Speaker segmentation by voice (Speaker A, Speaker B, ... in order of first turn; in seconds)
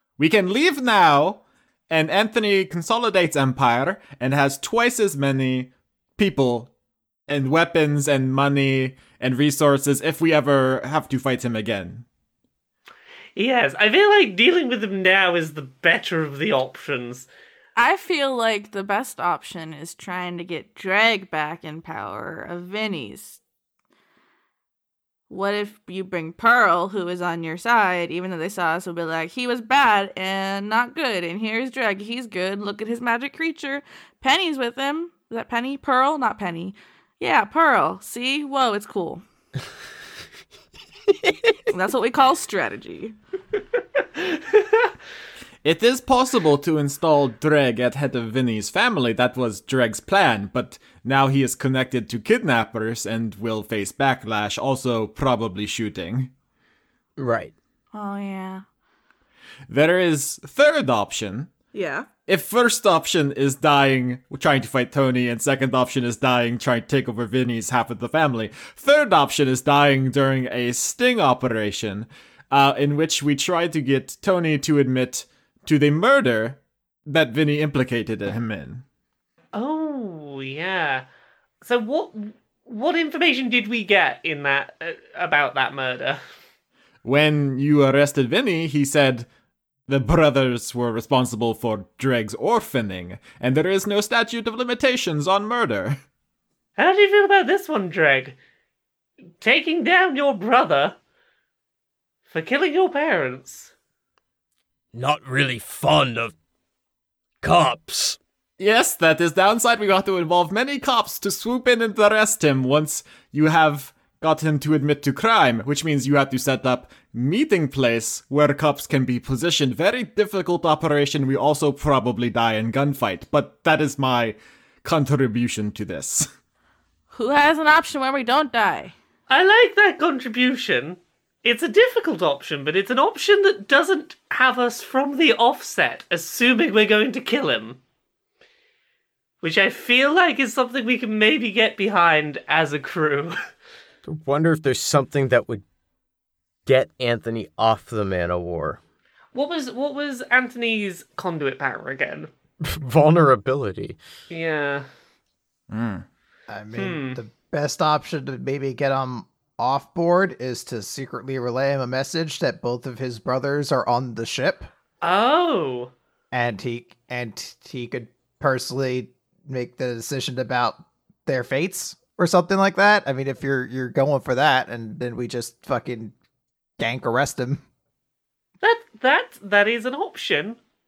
Speaker A: 0.2-6.7, 7.3-12.1, 45.6-56.3, 59.7-61.5, 62.3-78.8, 87.0-89.3, 89.9-96.0, 108.6-126.3, 155.7-156.1
Speaker B: 13.4-17.3, 79.5-81.0, 81.6-86.2, 96.8-98.4, 99.4-101.0, 102.3-103.7, 129.3-137.8, 139.4-143.4, 149.3-152.3, 154.3-154.9, 156.7-157.2, 165.0-165.9, 178.6-180.6
Speaker C: 17.8-23.4, 25.3-39.2, 41.7-43.1, 57.9-58.6, 61.7-62.1, 127.1-128.9
Speaker D: 57.2-57.5, 144.1-145.6, 146.7-148.8, 152.6-154.0
Speaker E: 104.9-106.3, 107.4-108.2
Speaker F: 156.5-164.7, 166.3-176.1, 176.8-177.6